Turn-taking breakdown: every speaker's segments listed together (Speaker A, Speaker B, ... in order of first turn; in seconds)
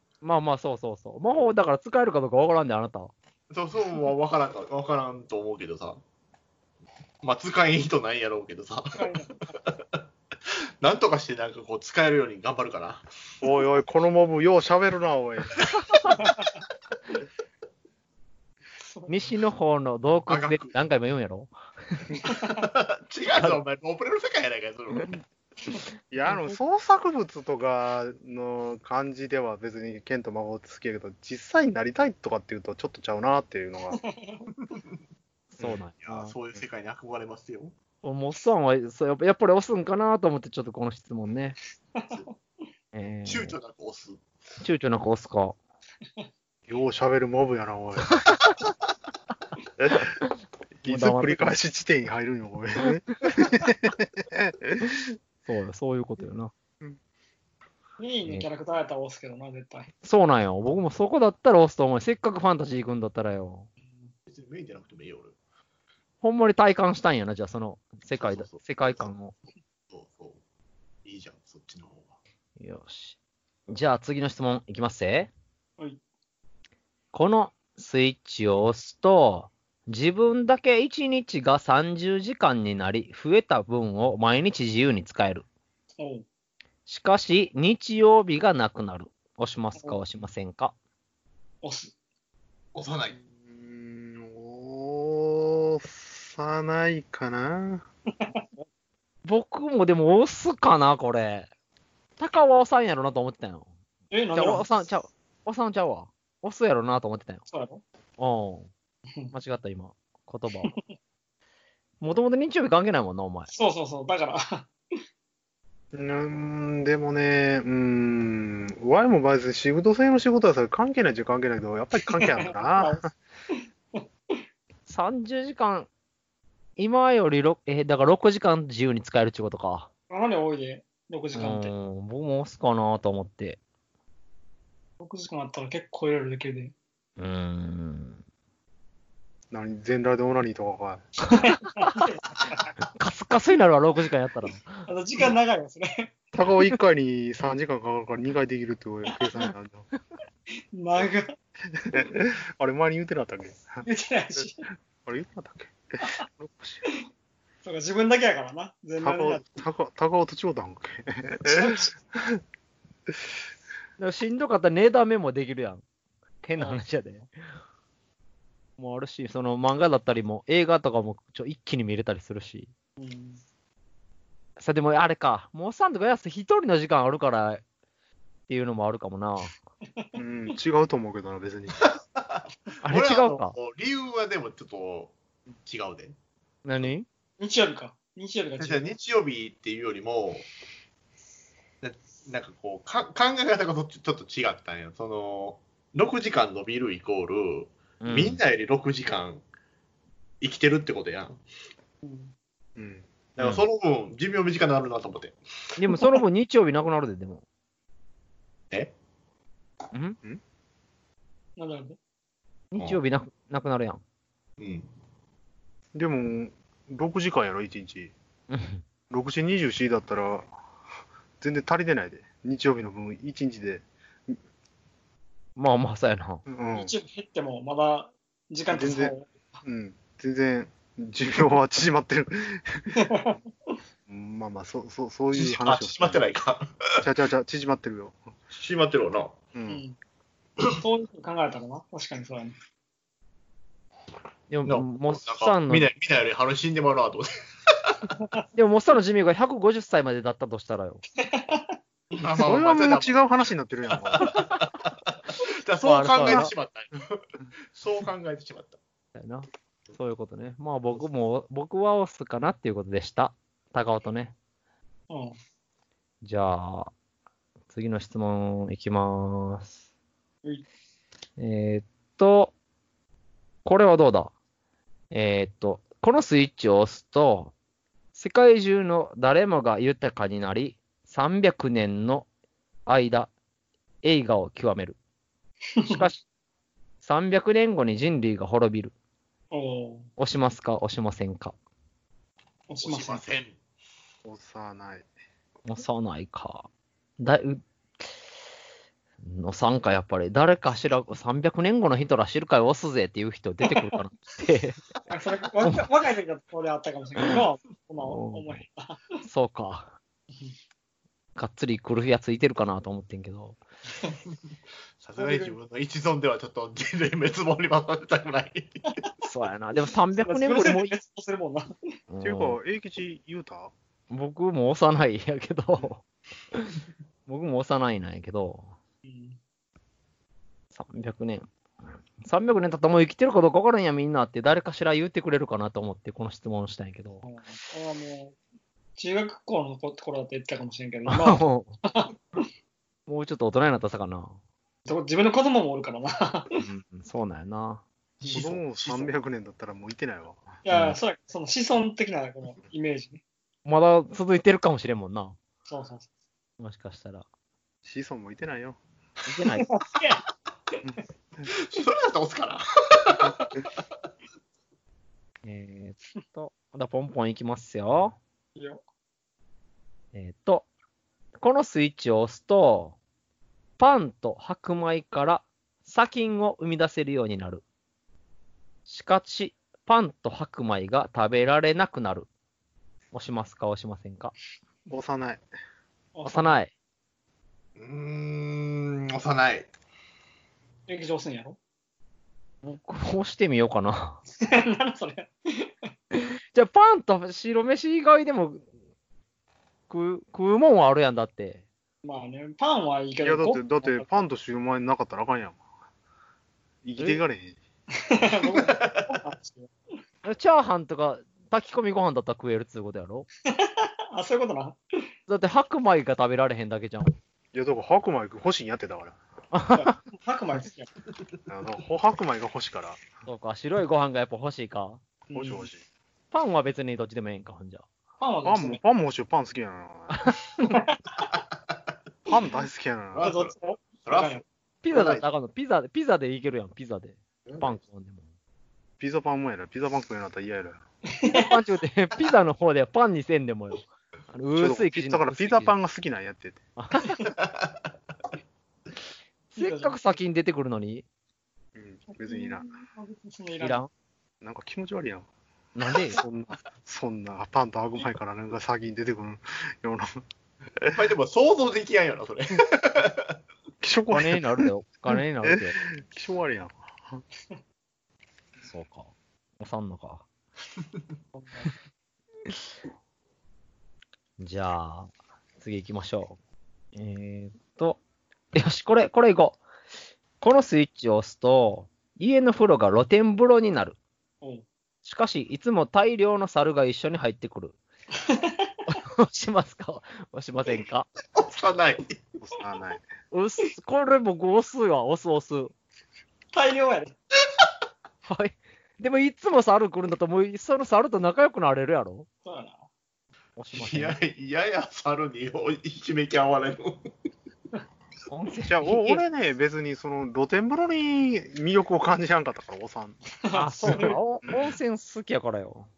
Speaker A: 0.2-3.1, 19.1-22.1, 26.3-26.6, 35.5-36.4, 38.0-41.6, 42.9-43.6, 44.6-45.6, 48.2-48.5, 50.0-51.6, 55.5-56.5, 60.0-63.7, 66.2-69.3, 72.6-73.2, 73.7-75.3, 77.1-85.5, 86.9-90.7, 99.2-101.5, 102.2-103.7, 104.3-107.4, 108.2-108.7, 109.3-110.7, 112.0-113.5, 124.9-125.9, 126.8-129.9, 131.3-133.6, 137.2-138.2, 141.3-142.0, 143.0-144.8, 164.0-165.8, 166.4-167.3, 168.8-172.7, 174.6-177.6, 178.5-179.6, 182.8-183.6, 186.7-187.1, 198.0-198.4, 203.4-203.6, 205.8-207.4, 209.9-210.2, 212.7-214.0, 218.5-218.8, 225.6-226.4, 244.5-245.9, 248.6-251.0, 255.8-256.5, 259.2-264.3, 266.2-266.9, 267.7-269.8, 271.4-272.5, 273.6-274.3, 275.1-277.5, 278.1-282.3, 282.9-283.3, 284.0-285.0, 285.9-286.2, 287.0-288.9, 290.2-291.6, 295.6-296.7, 297.2-297.6, 299.2-304.8, 308.0-308.6, 309.2-309.9, 311.4-313.6, 319.2-321.0, 322.1-322.6, 324.1-328.7, 330.7-331.5, 332.2-337.2, 341.1-341.8, 343.1-344.4, 346.6-347.8, 350.7-351.0, 353.6-355.4, 356.6-357.3, 359.3-359.7, 365.4-368.2, 370.1-370.7, 371.4-373.0, 373.8-377.6, 378.9-382.3, 383.1-384.3, 386.2-386.7, 392.6-394.2, 396.2-398.7, 399.9-401.6, 410.2-413.3, 415.3-417.1, 419.5-420.0, 423.3-425.0, 426.3-427.9, 430.1-430.8, 434.8-438.3, 441.3-445.7, 446.8-447.2, 449.5-451.0, 453.6-453.9, 455.8-456.2, 464.1-465.8, 468.6-470.2, 474.4-476.4, 476.9-478.0, 478.5-479.6, 480.4-484.0, 485.0-487.8, 488.9-491.1, 493.3-495.7, 498.3-502.3, 503.6-504.2, 508.3-509.2, 513.5-515.9
Speaker B: 3.5-6.0, 7.2-9.7, 10.8-13.1, 20.3-20.8, 22.6-25.2, 36.0-37.7, 43.3-44.2, 64.3-65.3, 68.2-69.0, 69.9-70.4, 71.0-72.2, 92.8-93.2, 181.9-186.2, 188.6-190.5, 191.8-199.4, 200.4-201.4, 203.4-205.4, 214.6-214.9, 235.3-237.0, 238.5-239.4, 244.7-248.2, 252.2-253.2, 254.1-254.7, 255.3-258.8, 292.8-293.6, 315.0-318.8, 361.4-363.4, 387.8-389.7, 408.6-409.1, 433.1-433.5, 434.0-435.3, 437.5-437.7, 460.9-463.3, 491.4-492.2, 503.7-507.1
Speaker C: 8.9-9.6, 16.2-16.5, 18.8-19.1, 22.3-22.6, 33.9-34.5, 42.0-42.3, 58.0-59.9, 86.0-86.2, 91.6-91.9, 104.1-104.7, 107.5-107.8, 113.5-114.7, 122.1-123.0, 124.0-124.4, 130.1-131.7, 135.0-136.7, 141.4-142.8, 144.9-146.1, 150.7-151.4, 153.8-154.7, 157.6-159.4, 161.6-161.9, 173.0-173.4, 187.4-188.8, 202.0-202.3, 211.6-212.0, 226.7-229.3, 233.0-233.4, 239.7-240.0, 240.8-242.6, 251.2-251.8, 265.1-265.4, 285.7-286.1, 289.5-290.1, 292.7-293.2, 305.1-309.0, 315.2-315.6, 320.2-321.8, 329.1-329.4, 337.2-338.4, 339.0-342.1, 344.9-346.6, 348.2-349.1, 350.6-353.2, 355.7-356.1, 359.6-360.2, 368.6-368.8, 386.1-386.6, 390.9-391.6, 394.4-395.7, 402.0-404.2, 408.1-409.7, 413.5-414.8, 419.7-420.9, 425.3-425.7, 428.2-428.8, 430.7-431.1, 433.2-434.4, 441.2-441.6, 449.6-449.9, 452.1-453.8, 471.4-471.7, 488.3-488.7, 496.5-497.1, 502.4-502.9, 513.5-514.2
Speaker D: 13.4-15.6, 26.1-34.0, 46.7-48.3, 49.8-50.2, 50.8-55.1, 93.2-97.8, 115.9-123.1, 139.5-141.1, 146.3-149.9, 151.8-153.8, 155.1-156.8, 159.0-162.4, 180.2-181.9, 202.8-203.1, 215.9-218.1, 219.1-220.5, 221.4-224.4, 226.5-226.9, 228.7-233.0, 234.1-236.3, 237.0-238.2, 239.5-239.8, 252.4-254.3, 294.2-295.1, 322.2-323.7, 348.2-350.6, 357.9-358.8, 384.9-385.4, 403.2-405.6, 406.8-407.6, 417.5-419.2, 421.5-423.0, 425.4-425.8, 428.4-430.2, 432.3-433.3, 439.0-440.8, 444.6-446.6, 451.8-452.7, 454.4-455.3, 456.1-460.2, 463.8-464.7, 465.4-467.2, 492.4-493.0, 508.7-513.2